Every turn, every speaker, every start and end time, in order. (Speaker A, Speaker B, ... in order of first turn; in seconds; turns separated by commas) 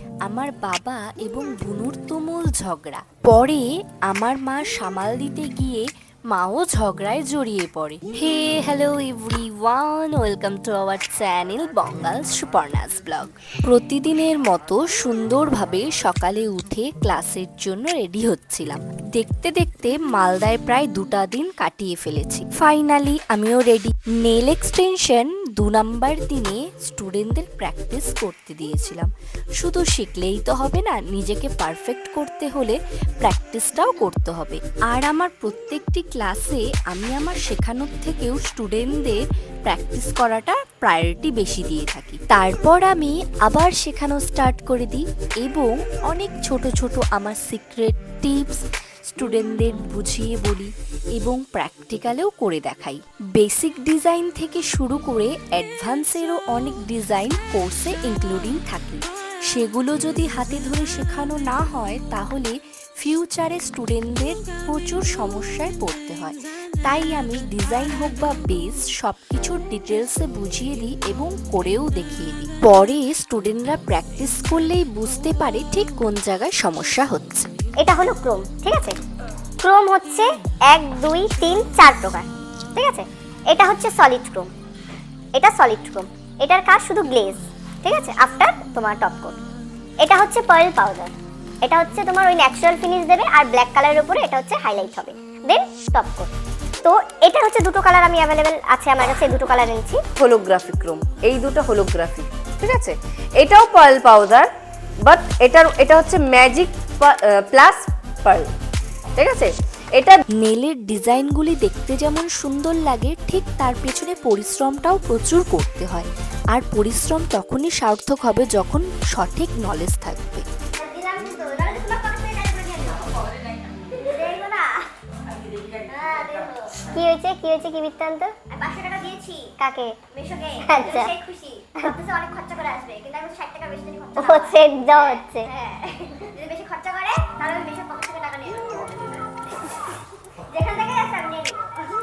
Speaker A: 0.3-77.5, Speaker B: 77.8-79.0, Speaker B: 79.6-84.5, Speaker B: 85.3-89.4, Speaker B: 90.0-96.3, Speaker B: 96.8-100.0, Speaker C: 100.2-104.5, Speaker C: 105.1-108.5, Speaker C: 109.2-110.2, Speaker A: 110.4-120.5, Speaker D: 120.8-123.4, Speaker D: 123.9-124.9, Speaker D: 125.8-126.8, Speaker B: 126.9-128.3, Speaker D: 128.5-139.8, Speaker B: 129.6-130.0, Speaker B: 130.7-131.1, Speaker B: 134.2-135.5, Speaker D: 140.5-141.7